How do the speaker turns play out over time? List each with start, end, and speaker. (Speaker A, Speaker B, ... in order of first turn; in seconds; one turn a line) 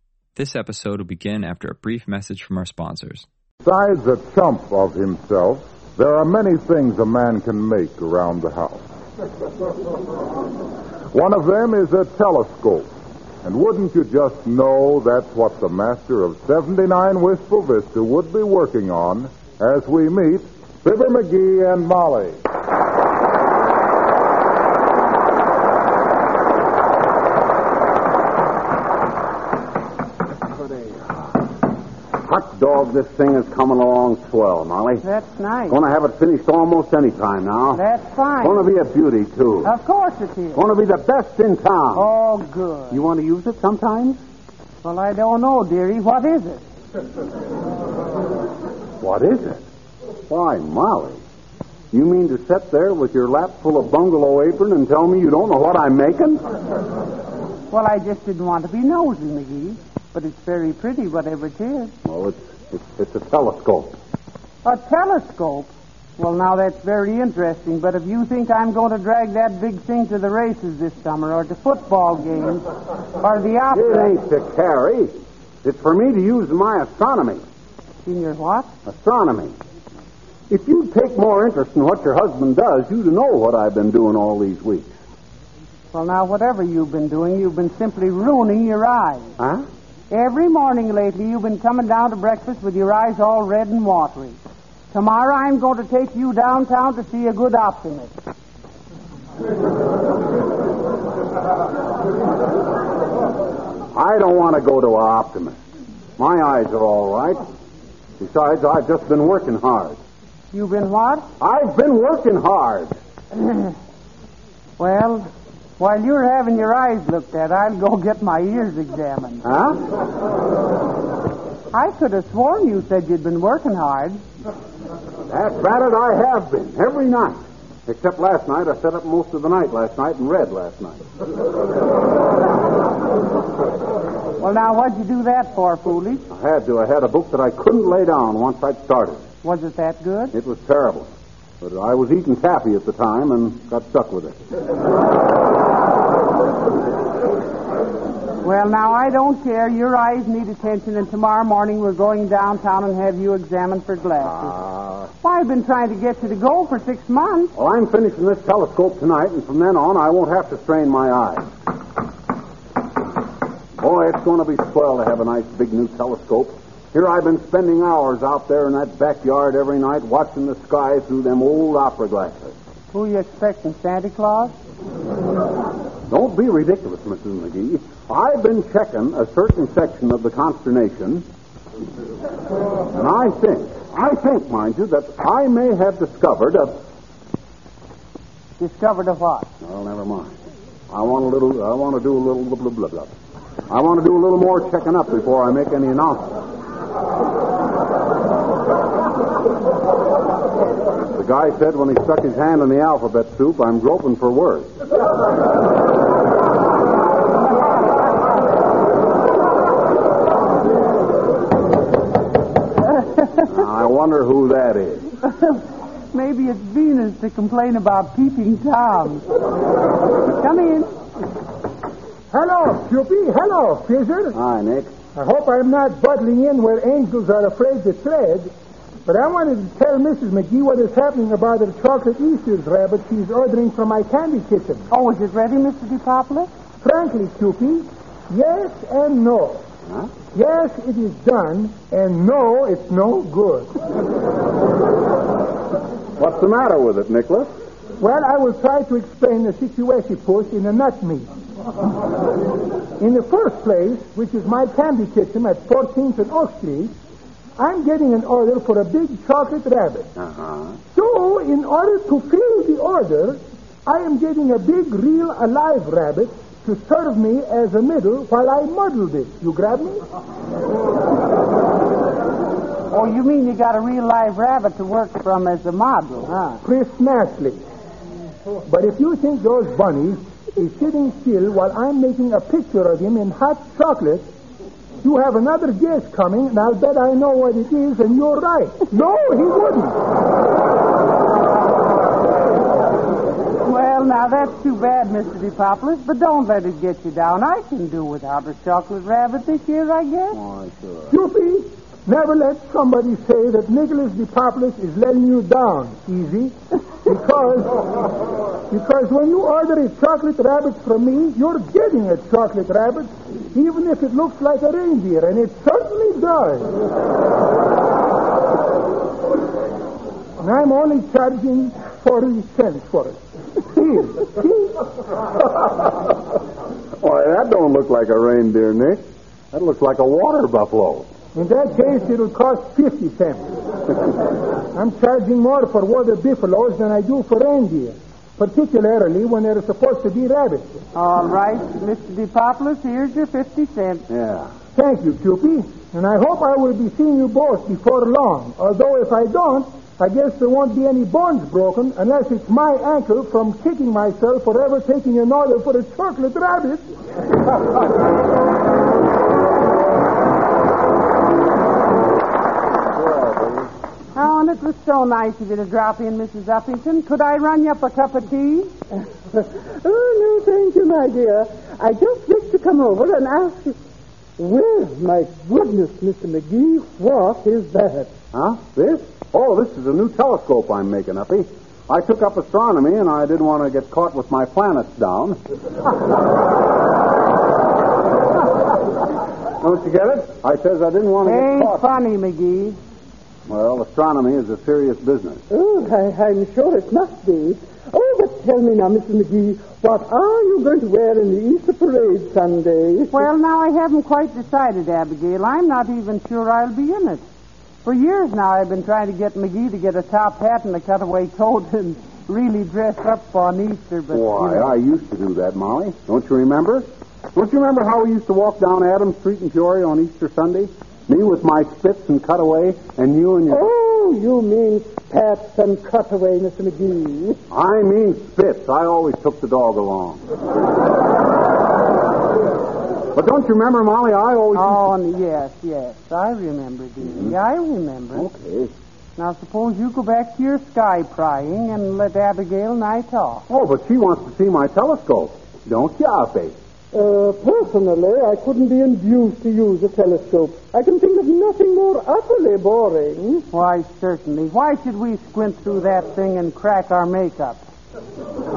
Speaker A: 0.4-3.3
Speaker B: 3.6-8.8
Speaker B: 11.1-12.9
Speaker B: 13.4-22.4
Speaker C: 32.2-35.0
Speaker D: 35.0-35.8
Speaker C: 35.7-37.8
Speaker D: 37.7-38.7
Speaker C: 38.4-39.7
Speaker D: 39.6-40.6
Speaker C: 40.5-42.1
Speaker D: 42.0-43.0
Speaker C: 42.9-44.2
Speaker D: 44.8-46.6
Speaker C: 49.0-49.6
Speaker C: 50.3-51.2
Speaker C: 51.9-56.4
Speaker D: 57.7-61.9
Speaker C: 62.0-63.9
Speaker D: 64.6-72.7
Speaker D: 73.2-74.1
Speaker C: 73.7-75.1
Speaker C: 75.6-77.4
Speaker D: 78.0-78.7
Speaker C: 78.9-79.5
Speaker C: 80.5-84.9
Speaker D: 85.9-89.3
Speaker C: 89.4-89.7
Speaker D: 90.1-94.4
Speaker D: 94.9-98.1
Speaker C: 103.9-105.6
Speaker C: 106.2-107.4
Speaker C: 108.2-110.0
Speaker D: 110.5-111.3
Speaker C: 111.4-113.0
Speaker D: 114.8-115.3
Speaker D: 115.8-119.5
Speaker C: 119.5-119.8
Speaker D: 121.7-124.2
Speaker C: 125.3-131.0
Speaker D: 134.4-136.2
Speaker C: 136.3-139.2
Speaker D: 139.4-140.3
Speaker C: 140.3-141.1
Speaker C: 141.6-144.4
Speaker D: 148.4-154.6
Speaker C: 154.4-155.1
Speaker D: 155.2-157.5
Speaker C: 157.6-161.5
Speaker C: 163.8-172.5
Speaker D: 172.9-174.5
Speaker C: 176.1-181.2
Speaker C: 182.9-186.8
Speaker D: 188.6-189.5
Speaker C: 189.6-190.3
Speaker C: 190.9-193.1
Speaker C: 193.7-196.4
Speaker C: 201.1-204.7
Speaker C: 213.4-215.1
Speaker D: 216.1-219.3
Speaker D: 220.3-220.9
Speaker E: 222.3-224.4
Speaker C: 224.3-224.9
Speaker E: 225.2-228.5
Speaker E: 229.1-234.9
Speaker D: 234.9-236.5
Speaker E: 236.8-239.6
Speaker E: 240.3-243.7
Speaker C: 246.2-247.5
Speaker E: 248.0-251.3
Speaker E: 253.0-256.9
Speaker E: 257.6-260.1
Speaker C: 260.2-260.8
Speaker E: 260.9-270.0
Speaker D: 272.9-276.6
Speaker E: 276.6-277.6
Speaker E: 278.7-284.3
Speaker E: 285.0-290.0
Speaker D: 293.6-300.4
Speaker C: 300.3-301.1
Speaker E: 301.1-307.8
Speaker E: 308.7-316.7
Speaker E: 320.4-324.8
Speaker C: 327.0-331.1
Speaker E: 331.4-333.5
Speaker E: 334.7-340.7
Speaker D: 340.9-344.1
Speaker C: 344.1-344.5
Speaker E: 344.8-356.9
Speaker C: 363.0-363.6
Speaker D: 364.1-368.7
Speaker F: 369.3-373.8
Speaker F: 374.4-378.1
Speaker C: 378.3-385.4
Speaker C: 389.6-391.9
Speaker D: 391.2-392.8
Speaker C: 393.5-395.4
Speaker F: 395.5-403.2
Speaker D: 403.1-407.2
Speaker D: 407.8-414.7
Speaker C: 414.1-423.7
Speaker F: 423.5-427.4
Speaker C: 427.5-430.2
Speaker C: 433.1-434.9
Speaker D: 434.5-438.3
Speaker C: 438.1-438.7
Speaker D: 439.2-443.4
Speaker C: 443.5-446.6
Speaker F: 446.9-453.4
Speaker D: 453.5-457.6